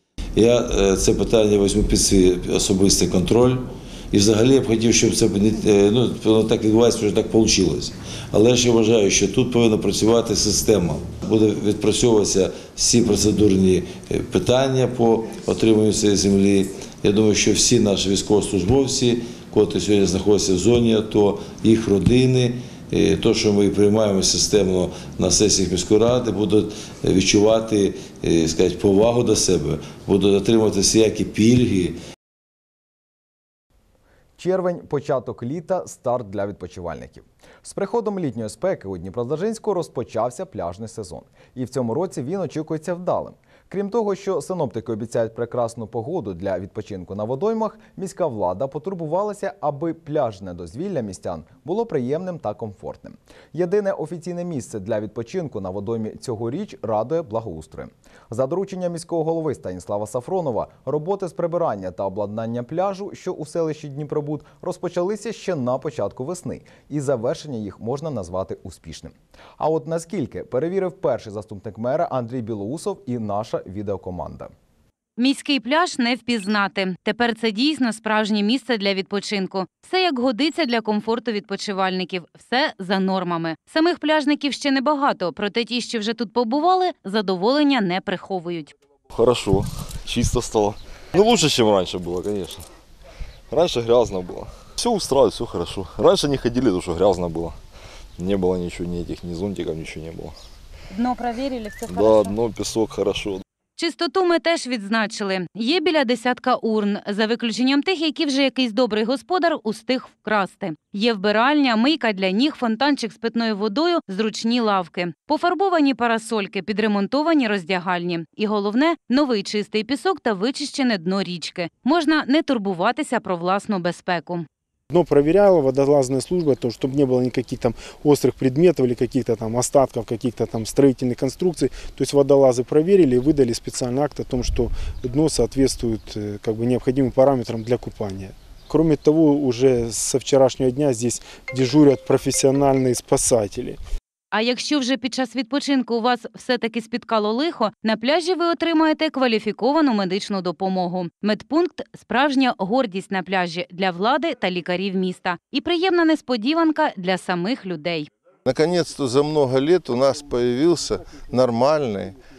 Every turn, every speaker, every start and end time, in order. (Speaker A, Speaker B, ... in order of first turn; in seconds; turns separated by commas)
Speaker A: 0.3-32.0, Speaker B: 34.4-74.5, Speaker C: 75.2-88.7, Speaker D: 89.1-92.6, Speaker D: 93.5-97.6, Speaker D: 98.2-100.3, Speaker C: 100.9-102.3, Speaker D: 101.9-103.4, Speaker C: 103.8-124.5, Speaker E: 124.9-143.8, Speaker C: 144.3-158.1, Speaker F: 158.5-162.2